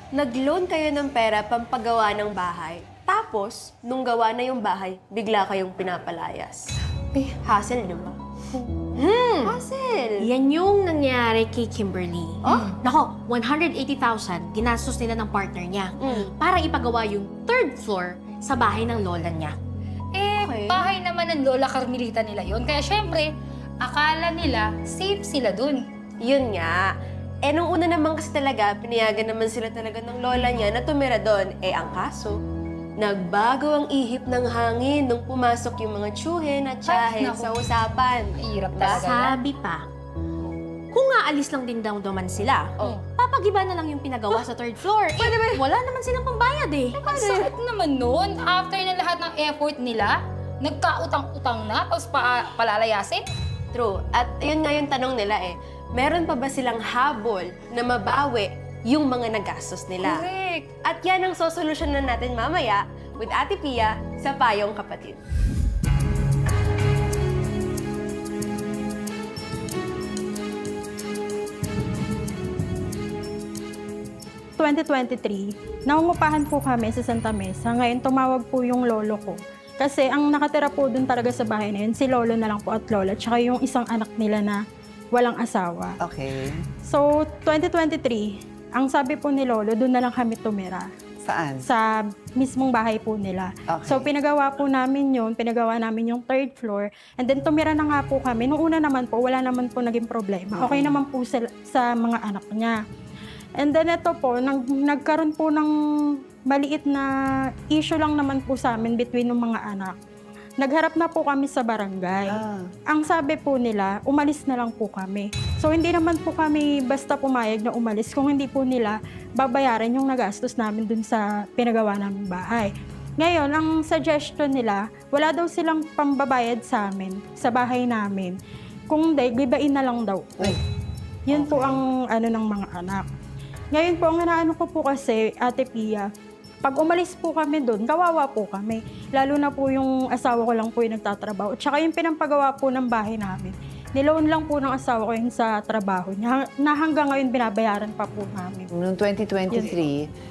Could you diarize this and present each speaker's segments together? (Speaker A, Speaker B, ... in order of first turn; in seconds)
Speaker A: 0.1-8.2, 8.9-10.2, 16.0-16.3, 26.2-26.9, 27.4-32.4, 33.0-39.1, 53.7-60.3, 60.8-65.2
Speaker B: 9.1-9.6, 10.2-19.6, 20.4-20.7, 39.0-39.9, 40.9-47.5
Speaker C: 20.1-23.3, 23.8-25.8, 36.9-37.5, 38.5-39.4, 45.2-45.5, 46.9-50.1, 50.7-53.2, 60.1-60.6
Speaker D: 74.6-84.6, 85.1-86.0, 86.9-90.9, 91.6-102.8, 103.6-105.7, 106.5-107.1, 107.7-110.0, 110.6-128.4, 128.9-130.6, 131.3-133.1, 133.7-136.1, 136.6-148.7, 149.5-149.8
Speaker E: 86.0-86.6, 91.2-91.7, 93.7-94.1, 100.5-101.0, 112.3-112.7, 131.3-131.8, 148.7-150.1